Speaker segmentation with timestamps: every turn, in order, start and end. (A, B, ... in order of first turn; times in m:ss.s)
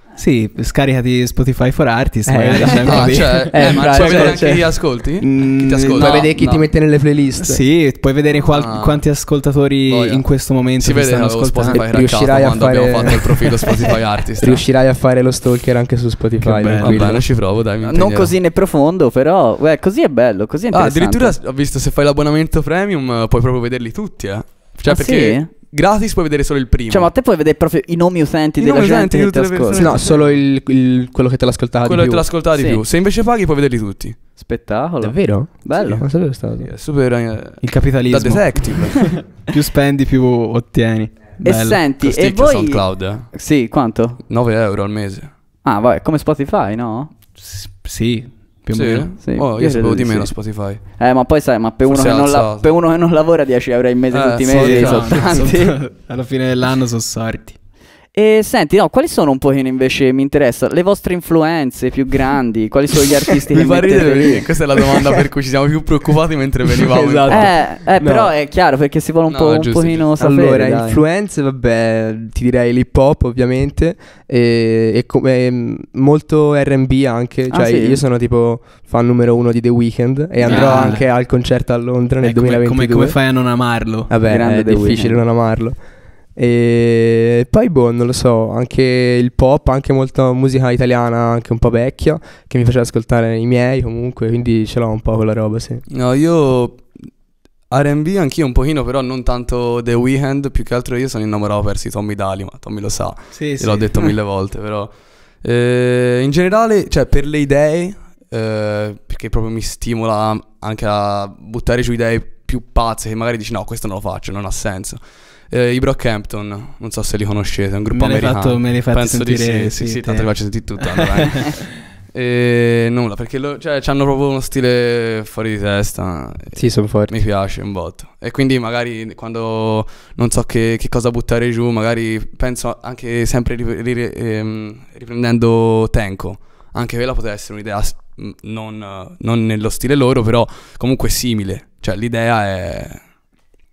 0:00.2-0:04.4 A
0:02.3-0:04.7 B
0:02.7-0:06.7 C
0:05.2-0:06.2 A
0:06.0-0:07.6 B
0:07.4-0:11.8 A
0:08.4-0:09.0 C
0:09.9-0:10.2 C
0:10.8-0:14.6 C
0:11.7-0:13.7 B
0:14.4-0:17.2 B
0:16.4-0:17.2 A
0:16.8-0:18.3 C
0:17.8-0:21.4 D
0:20.7-0:27.1 C
0:24.9-0:25.5 D
0:26.9-0:29.9 D
0:28.6-0:30.4 C
0:29.8-0:32.2 B
0:31.8-0:34.2 C
0:32.6-0:32.8 D
0:34.4-0:36.0 D
0:35.0-0:36.7 B
0:36.6-0:39.2 C
0:37.6-0:41.8 A
0:41.4-0:44.2 D
0:42.0-0:43.3 C
0:44.3-0:45.3 C
0:45.6-0:47.1 D
0:47.4-0:49.1 A
0:48.7-0:50.8 C
0:49.2-0:50.3 D
0:51.0-0:55.8 D
0:51.9-0:52.7 C
0:54.1-0:55.3 C
0:54.5-0:57.6 A
0:58.1-1:04.5 D
1:03.5-1:07.5 C
1:06.9-1:08.3 B
1:07.3-1:11.0 D
1:09.3-1:10.1 C
1:10.2-1:23.2 B
1:17.5-1:18.0 D
1:20.4-1:21.1 A
1:20.5-1:20.9 D
1:22.2-1:24.1 A
1:24.1-1:25.8 B
1:24.2-1:25.2 D
1:26.4-1:35.8 B
1:35.9-1:36.8 C
1:37.7-1:44.9 C
1:43.3-1:43.9 A
1:45.4-2:01.6 C
1:57.9-2:00.3 A
2:00.8-2:01.6 A
2:02.1-2:23.0 C
2:06.6-2:07.1 B